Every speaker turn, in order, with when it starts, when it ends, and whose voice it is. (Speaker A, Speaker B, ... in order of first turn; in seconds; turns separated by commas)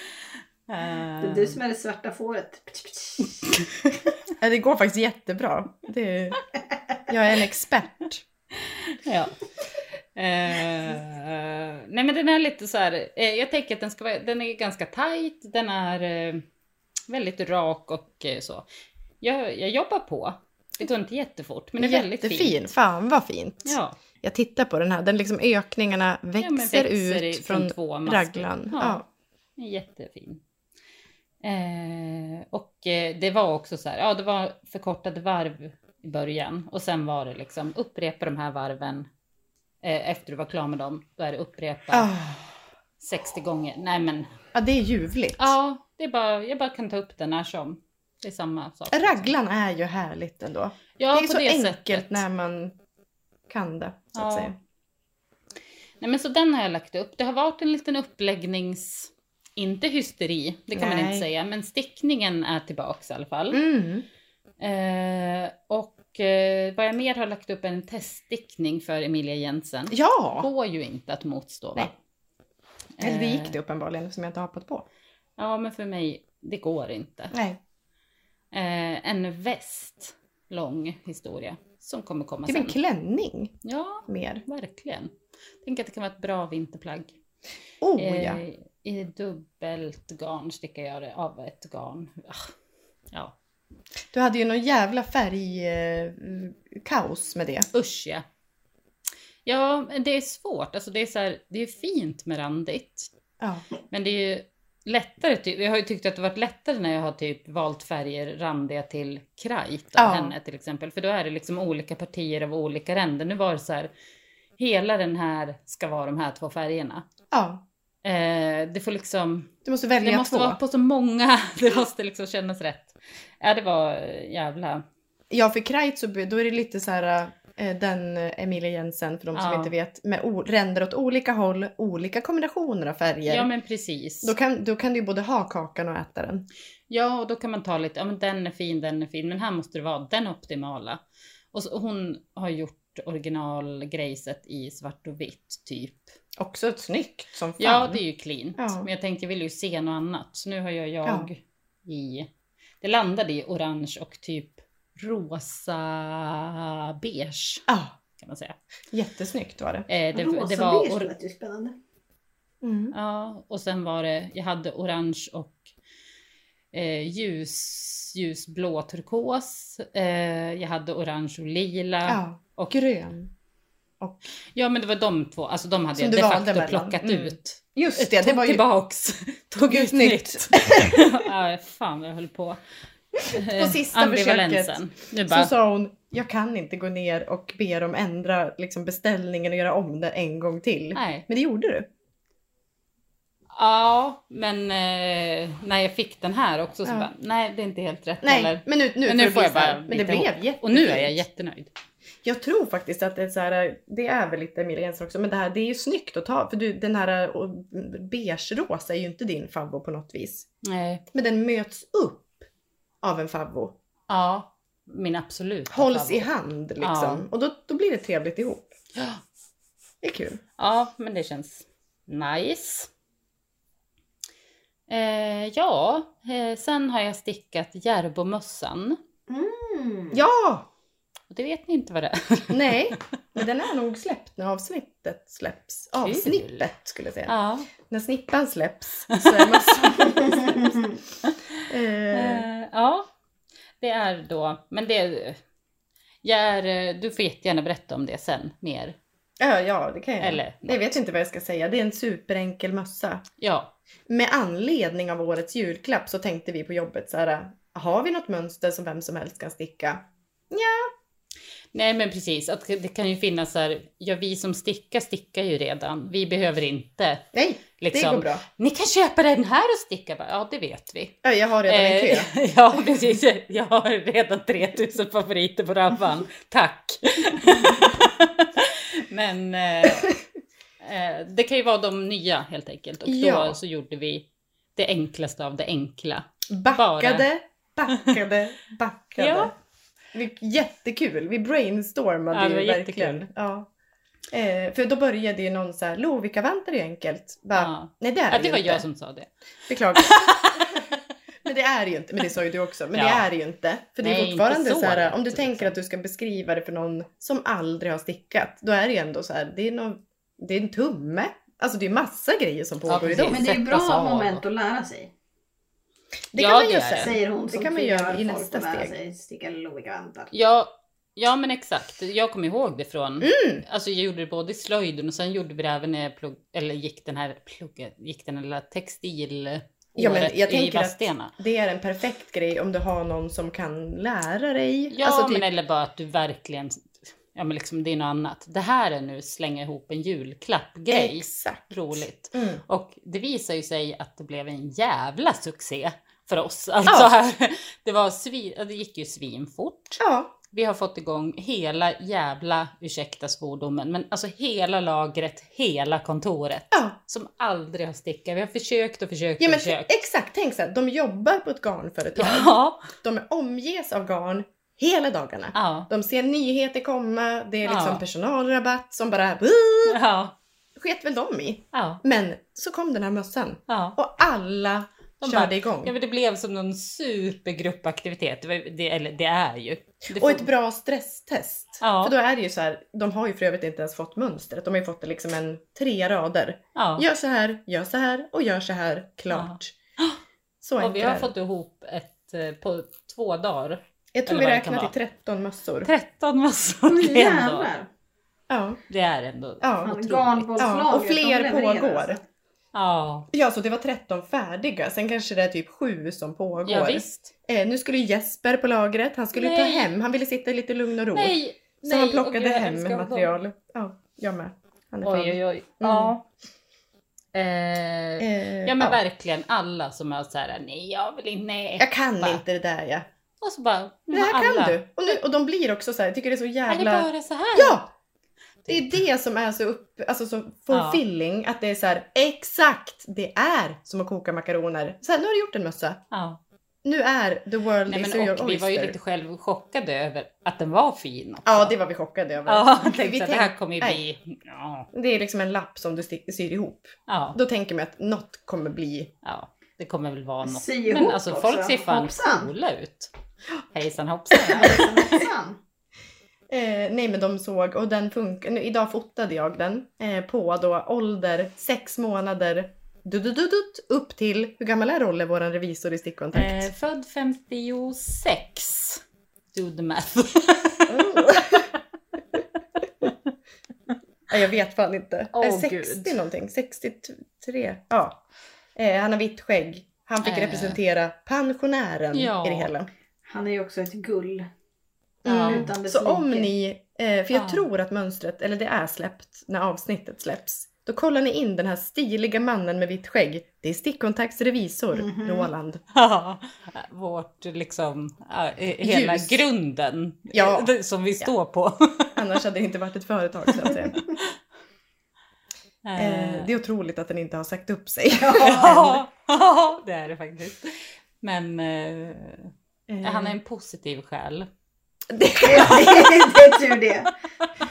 Speaker A: 0.7-1.6, Speaker B: 1.2-3.5, Speaker C: 4.4-6.4, Speaker C: 7.1-8.2, Speaker A: 8.6-9.4, Speaker A: 10.2-16.4, Speaker A: 17.1-18.7, Speaker A: 19.2-22.6, Speaker C: 21.8-29.1, Speaker A: 23.6-24.0, Speaker A: 26.4-29.0, Speaker A: 29.6-30.4, Speaker A: 31.4-39.1, Speaker A: 39.8-42.1, Speaker C: 41.9-42.5, Speaker A: 43.0-44.3, Speaker C: 44.5-45.6, Speaker A: 45.4-49.3, Speaker C: 48.9-52.8, Speaker A: 51.0-52.2, Speaker C: 53.5-54.5, Speaker A: 54.1-54.5, Speaker A: 56.0-63.6, Speaker C: 60.7-61.3, Speaker C: 63.5-64.1, Speaker A: 64.6-71.9, Speaker C: 69.9-70.5, Speaker A: 73.0-73.6, Speaker C: 73.0-74.9, Speaker A: 75.4-77.3, Speaker C: 77.3-77.6, Speaker A: 78.5-82.8, Speaker C: 82.5-83.6, Speaker A: 83.6-87.2, Speaker C: 84.1-84.4, Speaker C: 87.8-88.4, Speaker A: 88.0-92.5, Speaker C: 94.1-97.7, Speaker A: 97.7-98.2, Speaker A: 99.5-103.1, Speaker C: 103.4-103.7, Speaker A: 103.9-113.9, Speaker C: 110.0-110.3, Speaker A: 114.6-117.1, Speaker C: 117.3-117.6, Speaker A: 118.0-124.8, Speaker C: 119.7-120.6, Speaker C: 125.3-133.5, Speaker A: 129.3-129.7, Speaker A: 133.3-134.3, Speaker C: 134.2-136.5, Speaker A: 136.9-141.0, Speaker A: 141.5-146.1, Speaker C: 146.4-148.0, Speaker A: 147.6-152.3, Speaker C: 148.6-148.9, Speaker C: 151.1-151.3, Speaker A: 152.8-157.7, Speaker C: 157.7-158.0, Speaker A: 158.2-158.6, Speaker C: 158.9-159.9, Speaker A: 159.9-161.1, Speaker B: 160.1-161.8, Speaker C: 162.6-162.9, Speaker A: 162.9-165.7, Speaker A: 166.7-172.7, Speaker C: 172.1-173.3, Speaker A: 174.5-182.6, Speaker C: 176.0-178.6, Speaker C: 179.7-181.3, Speaker A: 183.2-185.5, Speaker C: 183.3-191.9, Speaker A: 190.9-191.3, Speaker A: 193.5-201.7, Speaker C: 196.8-197.1, Speaker C: 198.2-201.2, Speaker C: 202.2-210.5, Speaker A: 210.6-211.0, Speaker C: 211.1-212.4, Speaker C: 213.0-213.8, Speaker A: 214.1-217.2, Speaker C: 215.7-218.7, Speaker A: 218.9-219.2, Speaker C: 220.0-220.4, Speaker A: 220.6-222.9, Speaker A: 224.9-229.0, Speaker B: 229.3-230.2, Speaker C: 230.1-230.7, Speaker A: 231.3-232.9, Speaker C: 232.5-240.8, Speaker A: 236.0-236.7, Speaker A: 237.3-237.7, Speaker A: 239.1-240.0, Speaker C: 241.7-242.5, Speaker A: 242.1-243.1, Speaker A: 243.8-245.4, Speaker A: 246.2-249.0, Speaker C: 249.4-253.2, Speaker A: 250.2-251.0, Speaker A: 253.4-253.7, Speaker C: 254.1-260.9, Speaker A: 261.7-267.3, Speaker C: 267.3-268.4, Speaker A: 267.8-280.2, Speaker C: 271.2-272.3, Speaker A: 280.8-287.3, Speaker C: 283.1-283.6, Speaker C: 286.5-289.5, Speaker A: 289.2-289.5, Speaker C: 290.1-293.7, Speaker A: 292.3-293.3, Speaker C: 294.3-298.9, Speaker A: 297.6-299.3, Speaker C: 299.7-300.8, Speaker A: 299.9-300.9, Speaker C: 301.4-313.5, Speaker A: 302.9-303.3, Speaker A: 304.0-305.8, Speaker A: 312.9-314.4, Speaker B: 313.2-315.1, Speaker C: 316.3-318.9, Speaker A: 316.4-317.1, Speaker B: 317.0-320.3, Speaker A: 320.3-331.3, Speaker C: 323.2-323.6, Speaker C: 330.0-335.5, Speaker A: 334.9-350.0, Speaker C: 340.9-341.8, Speaker C: 342.3-342.6, Speaker C: 346.9-347.1, Speaker C: 350.0-350.3, Speaker A: 350.5-360.0, Speaker C: 356.7-357.0, Speaker C: 359.4-370.0, Speaker A: 362.2-362.9, Speaker A: 365.5-365.9, Speaker A: 367.6-368.0, Speaker A: 369.9-370.4, Speaker C: 370.8-375.9, Speaker A: 371.7-372.0, Speaker A: 373.7-374.0, Speaker A: 375.2-380.5, Speaker C: 380.1-389.8, Speaker A: 381.8-382.1, Speaker A: 386.8-387.1, Speaker A: 389.3-390.2, Speaker C: 390.6-391.3, Speaker A: 390.8-394.9, Speaker C: 394.1-395.9, Speaker A: 395.8-397.7, Speaker B: 396.9-397.9, Speaker C: 398.5-398.8, Speaker A: 398.9-400.6, Speaker C: 399.6-402.2, Speaker B: 399.8-402.2, Speaker A: 402.7-403.3, Speaker C: 403.3-416.1, Speaker A: 406.6-407.3, Speaker A: 409.3-409.9, Speaker A: 411.1-413.4, Speaker A: 415.0-416.2, Speaker A: 417.3-422.4, Speaker C: 418.2-419.0, Speaker C: 421.8-423.1, Speaker A: 423.4-425.1, Speaker C: 424.1-427.9, Speaker A: 426.7-427.8, Speaker A: 428.6-429.0, Speaker C: 428.7-436.0, Speaker A: 430.7-431.0, Speaker A: 436.1-436.4, Speaker C: 436.8-439.0, Speaker A: 437.9-441.7, Speaker C: 441.5-444.0, Speaker A: 442.4-444.9, Speaker C: 444.9-449.1, Speaker A: 447.1-447.4, Speaker A: 449.2-453.1, Speaker B: 450.4-452.5, Speaker A: 453.7-455.2, Speaker B: 454.5-455.6, Speaker C: 456.5-466.7, Speaker A: 466.3-469.0, Speaker A: 469.5-471.2, Speaker C: 470.9-471.7, Speaker C: 474.3-478.2, Speaker A: 475.3-476.1, Speaker C: 478.8-482.9, Speaker A: 480.2-480.8, Speaker A: 482.1-482.7, Speaker B: 483.3-484.5, Speaker C: 485.2-495.8, Speaker A: 485.3-485.7, Speaker B: 485.3-486.5, Speaker A: 487.3-487.7, Speaker B: 494.9-495.5, Speaker A: 495.9-502.2, Speaker C: 498.8-499.4, Speaker C: 500.3-501.3, Speaker C: 502.2-504.0, Speaker A: 503.5-504.3, Speaker A: 505.9-506.5, Speaker C: 506.0-509.0, Speaker B: 508.1-508.8, Speaker A: 508.4-514.5, Speaker C: 512.9-513.4, Speaker C: 515.1-516.4, Speaker B: 515.4-517.1